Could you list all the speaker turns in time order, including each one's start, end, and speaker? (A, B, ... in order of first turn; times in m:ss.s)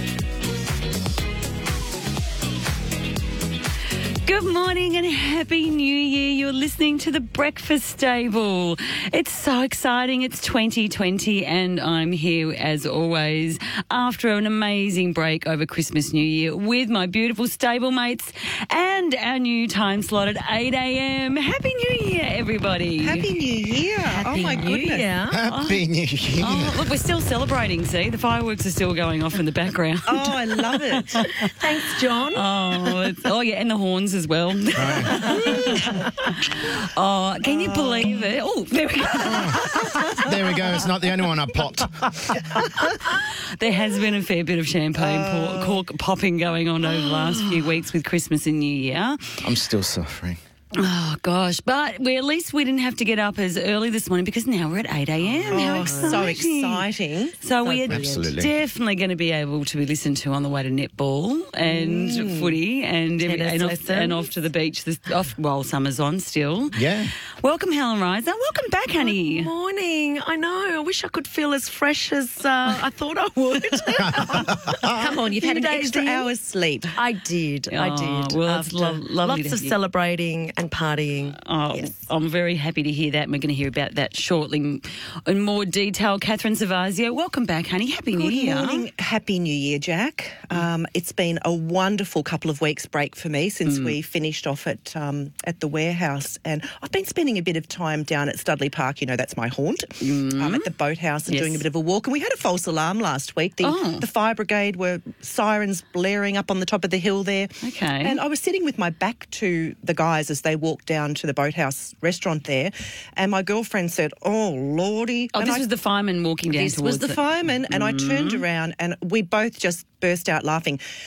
0:04.2-0:23.3 A
0:23.0-0:25.1 B
0:24.1-0:25.4 C
0:25.3-0:26.9 D
0:25.5-0:25.8 A
0:26.4-0:31.5 A
0:30.0-0:31.2 B
0:31.2-0:32.5 C
0:32.3-0:40.2 A
0:34.7-0:35.8 D
0:37.5-0:38.1 B
0:39.2-0:42.4 D
0:43.0-0:49.5 A
0:45.0-0:45.7 B
0:49.4-0:50.4 D
0:50.7-0:56.9 A
0:55.5-0:57.4 B
0:55.5-0:56.3 C
0:57.4-1:09.5 A
0:57.6-0:58.3 C
0:57.9-0:58.5 D
1:01.7-1:02.5 B
1:03.2-1:04.3 C
1:06.7-1:07.1 D
1:09.0-1:16.3 C
1:14.0-1:15.0 D
1:14.8-1:17.0 B
1:16.9-1:21.9 C
1:17.7-1:19.7 A
1:21.4-1:28.9 A
1:28.1-1:55.6 B
1:33.6-1:34.0 A
1:40.0-1:40.7 A
1:41.3-1:41.6 A
1:43.6-1:44.0 A
1:47.6-1:48.2 A
1:55.3-1:58.4 A
1:56.5-2:00.8 B